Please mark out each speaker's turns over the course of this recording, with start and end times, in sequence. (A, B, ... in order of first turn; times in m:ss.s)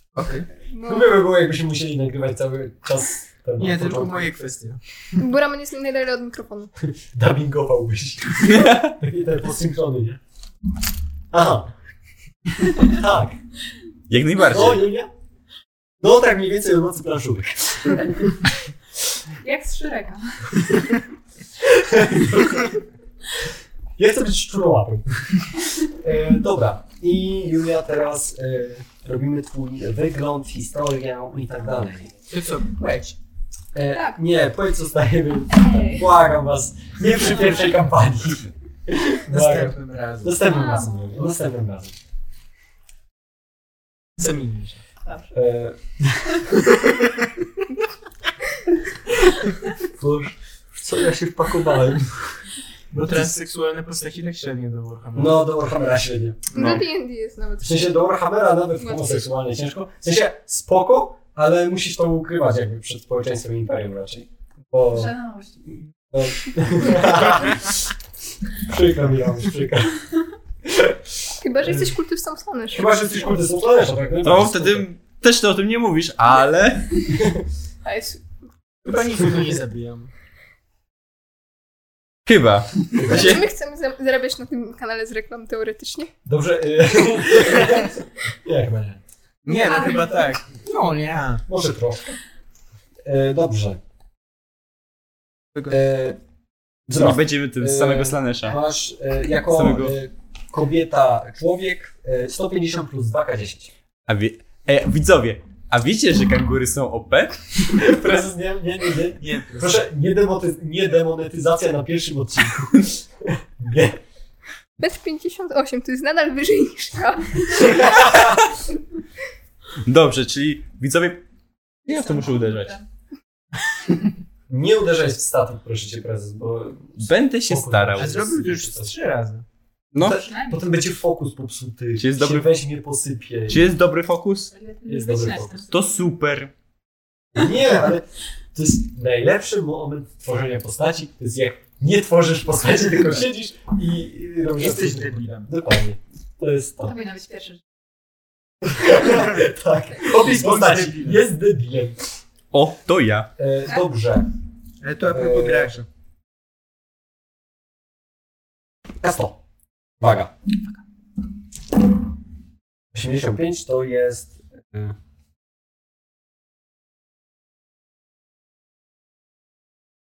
0:00.1-0:00.4 A
0:00.7-0:01.2 B
0:00.8-0:04.4 C
0:03.6-0:04.8 A
0:05.2-0:06.7 B
0:07.1-0:10.2 C
0:08.5-0:08.9 D
0:11.3-0:11.7 C
0:12.7-0:13.4 C
0:14.1-0:14.9 D
0:14.4-0:15.1 C
0:16.0-0:18.3 C
0:19.4-0:20.8 E
0:21.9-0:22.6 C
0:24.0-0:32.1 C
0:32.3-0:33.2 A
0:33.7-0:42.0 C
0:33.9-0:34.2 E
0:35.5-0:36.1 E
0:39.3-0:40.7 A
0:40.5-0:40.9 E
0:44.2-0:44.8 A
0:45.3-0:46.6 C
0:49.1-0:52.4 C
0:52.9-0:55.6 A
0:55.1-0:56.5 C
0:56.5-0:56.8 D
0:56.5-0:58.0 B
0:57.6-1:05.2 C
1:04.9-1:05.7 E
1:06.1-1:07.9 C
1:08.6-1:10.1 C
1:11.4-1:13.1 B
1:12.7-1:14.8 C
1:14.2-1:17.1 D
1:17.8-1:18.2 B
1:18.8-1:20.1 A
1:22.2-1:23.4 D
1:22.9-1:23.4 C
1:23.1-1:26.1 B
1:26.2-1:29.0 C
1:29.4-1:31.4 A
1:29.5-1:30.2 E
1:31.5-1:32.1 C
1:33.0-1:33.8 C
1:35.7-1:36.2 C
1:36.9-1:43.7 C
1:36.9-1:38.6 D
1:39.5-1:40.0 D
1:44.1-1:47.4 D
1:47.7-1:54.0 C
1:49.3-1:49.6 A
1:54.8-1:58.0 B
1:59.8-2:01.2 D
2:01.8-2:02.8 D
2:01.9-2:02.8 E
2:04.5-2:09.0 C
2:07.0-2:08.2 D
2:08.0-2:09.4 A
2:09.9-2:10.2 D
2:10.0-2:13.6 C
2:10.2-2:10.6 E
2:12.0-2:12.6 D
2:13.5-2:14.5 D
2:14.5-2:16.0 E
2:14.8-2:15.7 C
2:15.7-2:16.5 D
2:17.3-2:27.0 C
2:24.5-2:25.5 A
2:26.8-2:27.6 E
2:28.6-2:32.0 C
2:30.0-2:31.2 A
2:32.5-2:33.3 D
2:33.4-2:34.3 C
2:34.8-2:35.9 A
2:35.0-2:35.8 C
2:39.0-2:39.4 C
2:40.0-2:40.3 C
2:42.9-2:45.0 C